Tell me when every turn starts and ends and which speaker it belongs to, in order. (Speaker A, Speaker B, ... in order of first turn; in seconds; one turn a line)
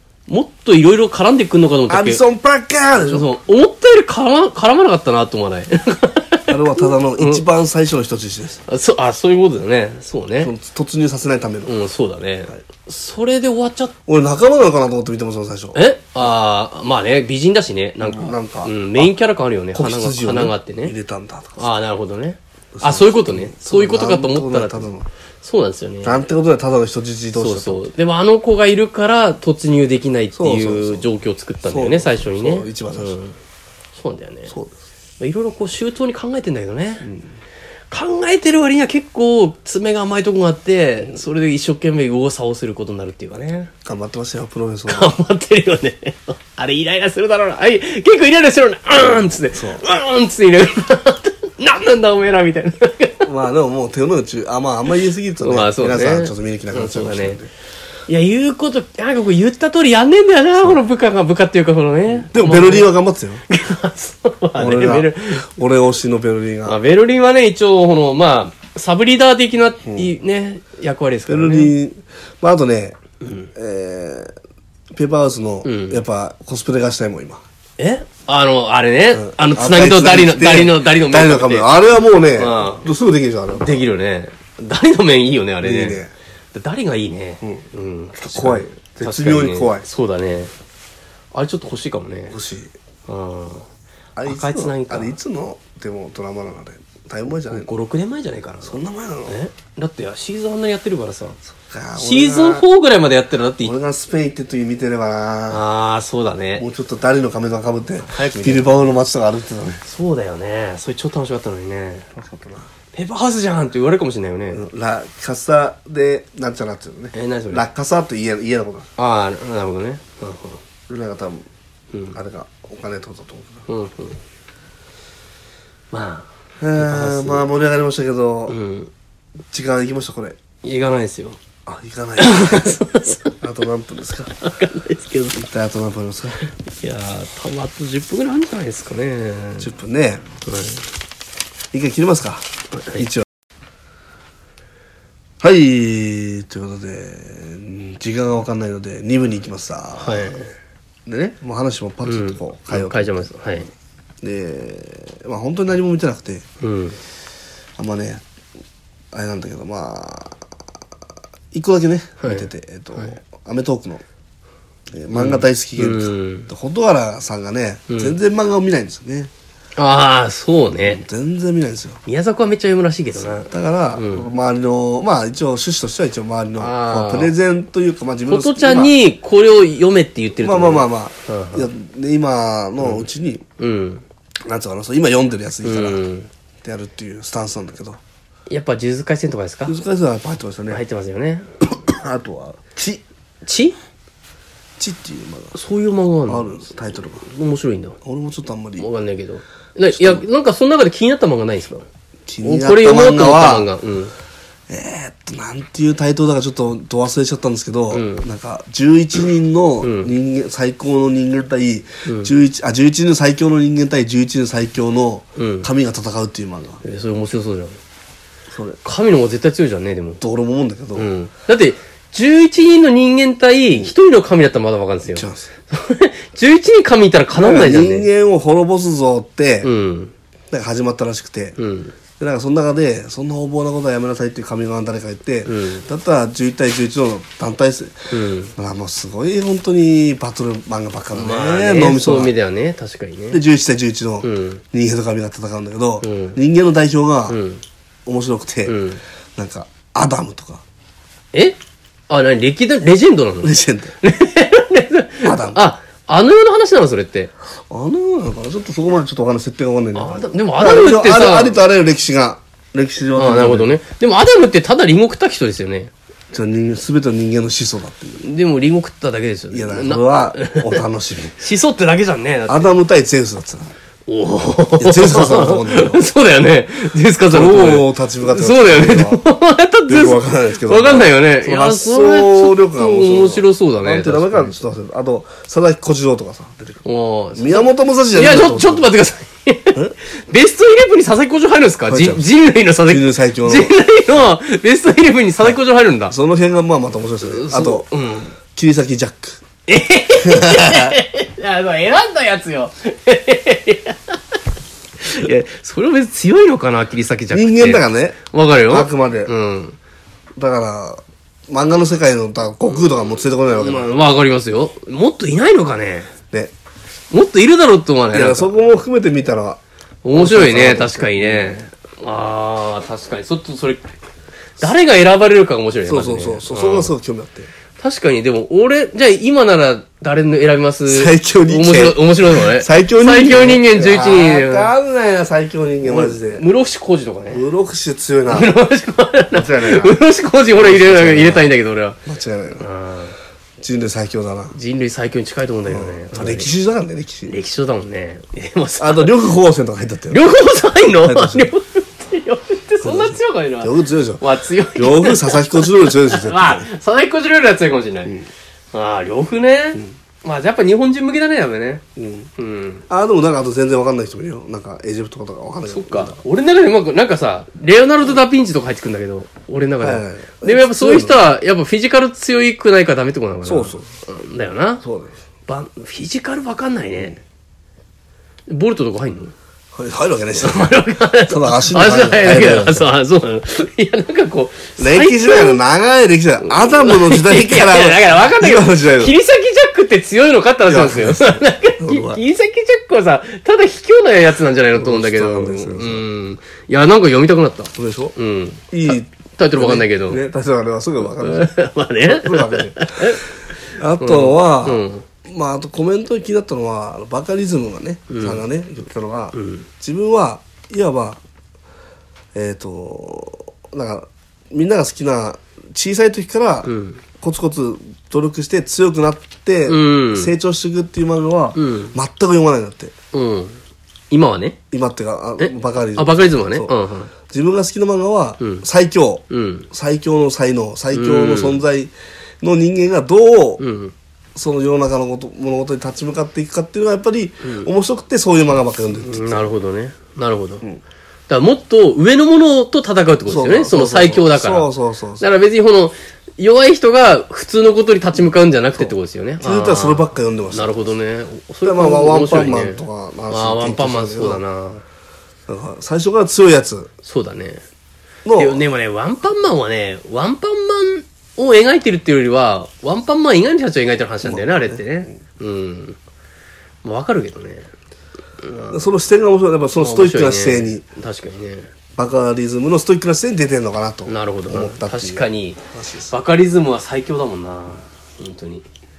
Speaker A: 0.3-2.2
Speaker B: 1.9-3.3
Speaker A: 3.0-7.4
Speaker B: 6.5-8.6
Speaker A: 8.7-10.5
Speaker B: 10.4-11.7
Speaker A: 11.7-14.0
Speaker B: 14.1-15.8
Speaker A: 15.7-20.9
Speaker B: 18.0-19.1
Speaker B: 19.7-21.7
Speaker A: 21.6-24.9
Speaker B: 22.8-25.1
Speaker A: 25.4-26.2
Speaker B: 26.0-27.9
Speaker A: 27.4-33.4
Speaker B: 30.3-31.1
Speaker B: 31.7-33.2
Speaker A: 34.0-34.5
Speaker A: 35.2-37.1
Speaker A: 37.9-43.7
Speaker B: 43.9-45.1
Speaker A: 44.9-53.3
Speaker B: 49.5-49.8
Speaker B: 53.2-57.5
Speaker A: 55.4-57.4
Speaker A: 58.1-62.9
Speaker B: 62.3-63.4
Speaker A: 63.5-65.5
Speaker B: 64.6-66.8
Speaker A: 66.7-71.7
Speaker B: 69.8-70.1
Speaker B: 71.3-73.0
Speaker A: 73.2-73.5
Speaker B: 73.5-74.3
Speaker B: 74.9-77.4
Speaker A: 75.7-76.0
Speaker A: 77.8-81.7
Speaker B: 79.1-83.8
Speaker A: 82.4-82.9
Speaker A: 83.6-86.0
Speaker B: 85.6-86.1
Speaker A: 86.5-90.5
Speaker B: 88.2-89.9
Speaker A: 91.3-92.4
Speaker B: 92.3-92.7
Speaker A: 93.1-93.7
Speaker B: 94.2-97.7
Speaker A: 94.2-95.1
Speaker A: 97.5-101.4
Speaker B: 98.6-99.4
Speaker B: 101.6-102.7
Speaker A: 102.0-103.7
Speaker B: 103.6-105.6
Speaker A: 105.5-106.7
Speaker B: 106.6-109.8
Speaker A: 108.0-108.9
Speaker A: 109.8-112.1
Speaker B: 112.2-112.7
Speaker A: 112.9-114.7
Speaker B: 114.5-118.9
Speaker A: 117.1-117.7
Speaker A: 119.0-120.6
Speaker B: 120.9-121.5
Speaker A: 121.9-122.2
Speaker B: 122.1-123.7
Speaker A: 123.7-124.2
Speaker A: 125.9-127.5
Speaker B: 126.6-128.6
Speaker A: 128.5-128.9
Speaker B: 129.5-130.4
Speaker A: 130.6-131.4
Speaker B: 131.7-132.8
Speaker A: 132.2-133.4
Speaker B: 133.4-134.4
Speaker A: 134.4-135.4
Speaker B: 135.3-136.5
Speaker A: 136.7-139.7
Speaker B: 139.6-140.3
Speaker A: 140.4-140.8
Speaker B: 141.7-143.3
Speaker A: 142.7-143.0
Speaker B: 145.4-150.3
Speaker A: 150.0-150.5
Speaker B: 151.1-153.1
Speaker A: 152.1-153.7
Speaker B: 154.2-156.5
Speaker A: 156.6-157.0
Speaker B: 157.8-158.2
Speaker B: 159.1-160.4
Speaker B: 161.5-164.0
Speaker A: 162.2-163.2
Speaker B: 164.9-169.3
Speaker A: 165.1-166.5
Speaker A: 167.9-168.2
Speaker A: 169.8-171.0
Speaker B: 170.8-172.0
Speaker A: 172.1-174.3
Speaker B: 173.5-178.9
Speaker A: 176.6-177.3
Speaker A: 178.3-181.7
Speaker B: 180.4-183.4
Speaker A: 182.8-183.1
Speaker A: 183.6-184.0
Speaker B: 184.5-186.0
Speaker A: 185.6-186.3
Speaker B: 186.6-188.0
Speaker A: 188.5-189.8
Speaker B: 189.7-190.8
Speaker A: 190.7-191.5
Speaker B: 191.9-193.0
Speaker A: 193.4-193.8
Speaker B: 194.8-195.6
Speaker A: 195.6-198.0
Speaker B: 196.3-197.2
Speaker B: 198.0-198.9
Speaker A: 198.8-201.9
Speaker B: 199.9-200.2
Speaker B: 202.3-203.7
Speaker A: 202.4-204.1
Speaker B: 204.7-216.8
Speaker A: 207.9-208.3
Speaker A: 209.8-210.1
Speaker A: 212.1-212.3
Speaker A: 215.4-215.7
Speaker A: 216.8-217.8
Speaker B: 218.5-218.8
Speaker A: 218.8-220.2
Speaker B: 220.2-221.1
Speaker A: 220.9-228.1
Speaker B: 225.1-225.5
Speaker B: 227.3-229.7
Speaker A: 229.6-230.1
Speaker B: 230.5-231.6
Speaker A: 231.6-231.9
Speaker B: 232.2-242.3
Speaker A: 235.5-235.9
Speaker A: 238.1-238.5
Speaker A: 241.1-243.4
Speaker B: 243.3-247.4
Speaker A: 244.2-244.6
Speaker A: 246.0-246.4
Speaker A: 247.3-247.6
Speaker B: 248.1-248.8
Speaker A: 248.7-249.0
Speaker B: 249.4-250.6
Speaker A: 251.3-251.6
Speaker A: 252.1-257.3
Speaker B: 253.4-253.9
Speaker B: 255.2-255.6
Speaker B: 257.7-263.7
Speaker A: 259.9-261.6
Speaker A: 263.1-265.9
Speaker B: 266.3-268.3
Speaker A: 268.2-270.8
Speaker B: 269.5-271.4
Speaker A: 271.4-272.7
Speaker B: 272.5-273.7
Speaker A: 274.1-284.6
Speaker B: 274.8-276.1
Speaker B: 277.3-279.2
Speaker B: 279.9-286.8
Speaker A: 286.9-296.2
Speaker B: 287.4-288.9
Speaker B: 291.9-292.3
Speaker B: 292.8-293.8
Speaker B: 296.1-297.9
Speaker A: 297.2-298.4
Speaker B: 298.4-299.4
Speaker A: 299.7-304.2
Speaker B: 300.2-301.0
Speaker A: 305.0-309.8
Speaker B: 307.3-309.3
Speaker B: 310.4-313.9
Speaker A: 313.5-316.1
Speaker A: 317.1-318.6
Speaker B: 318.1-319.6
Speaker A: 320.0-323.9
Speaker B: 320.1-321.6
Speaker A: 324.6-326.9
Speaker B: 325.9-327.5
Speaker A: 327.8-334.7
Speaker B: 330.9-336.4
Speaker A: 335.8-337.4
Speaker B: 337.3-338.5
Speaker A: 338.3-342.0
Speaker B: 339.3-340.0
Speaker B: 340.5-341.5
Speaker B: 342.1-342.7
Speaker A: 342.6-343.1
Speaker B: 343.6-344.6
Speaker A: 344.5-346.5
Speaker B: 345.7-347.3
Speaker A: 347.3-349.3
Speaker B: 348.8-350.2
Speaker A: 350.1-358.1
Speaker B: 351.0-351.5
Speaker B: 352.8-354.2
Speaker B: 354.8-356.7
Speaker A: 358.7-361.8
Speaker B: 362.0-362.3
Speaker A: 362.4-362.9
Speaker B: 362.9-366.2
Speaker A: 365.7-374.8
Speaker B: 369.8-371.2
Speaker B: 373.4-373.9
Speaker B: 374.8-375.1
Speaker A: 375.5-377.2
Speaker A: 378.5-379.3
Speaker B: 379.7-382.9
Speaker A: 380.4-385.6
Speaker B: 384.8-389.2
Speaker A: 386.4-400.2
Speaker B: 390.6-392.2
Speaker B: 394.7-396.0
Speaker B: 397.8-398.1
Speaker B: 398.7-403.2
Speaker A: 401.2-403.3
Speaker B: 403.7-411.2
Speaker A: 404.0-405.1
Speaker A: 408.1-408.4
Speaker A: 409.3-409.7
Speaker B: 412.3-422.9
Speaker A: 416.6-417.0
Speaker A: 419.7-420.3
Speaker A: 421.6-421.9
Speaker A: 423.1-423.6
Speaker A: 424.1-424.6
Speaker B: 424.7-426.7
Speaker A: 425.4-427.1
Speaker B: 427.2-433.6
Speaker A: 428.4-428.6
Speaker A: 429.3-429.7
Speaker A: 430.9-431.6
Speaker A: 433.6-433.9
Speaker B: 434.4-439.5
Speaker A: 437.4-437.7
Speaker A: 439.0-440.6
Speaker A: 441.3-454.8
Speaker B: 443.3-445.3
Speaker B: 448.8-450.9
Speaker B: 451.6-454.4
Speaker B: 455.5-456.9
Speaker A: 457.0-457.6
Speaker B: 458.2-458.6
Speaker A: 458.4-466.0
Speaker B: 464.2-464.8
Speaker A: 466.8-467.7
Speaker A: 468.4-468.9
Speaker B: 468.7-470.9
Speaker A: 469.8-471.7
Speaker B: 472.0-476.1
Speaker A: 474.1-478.7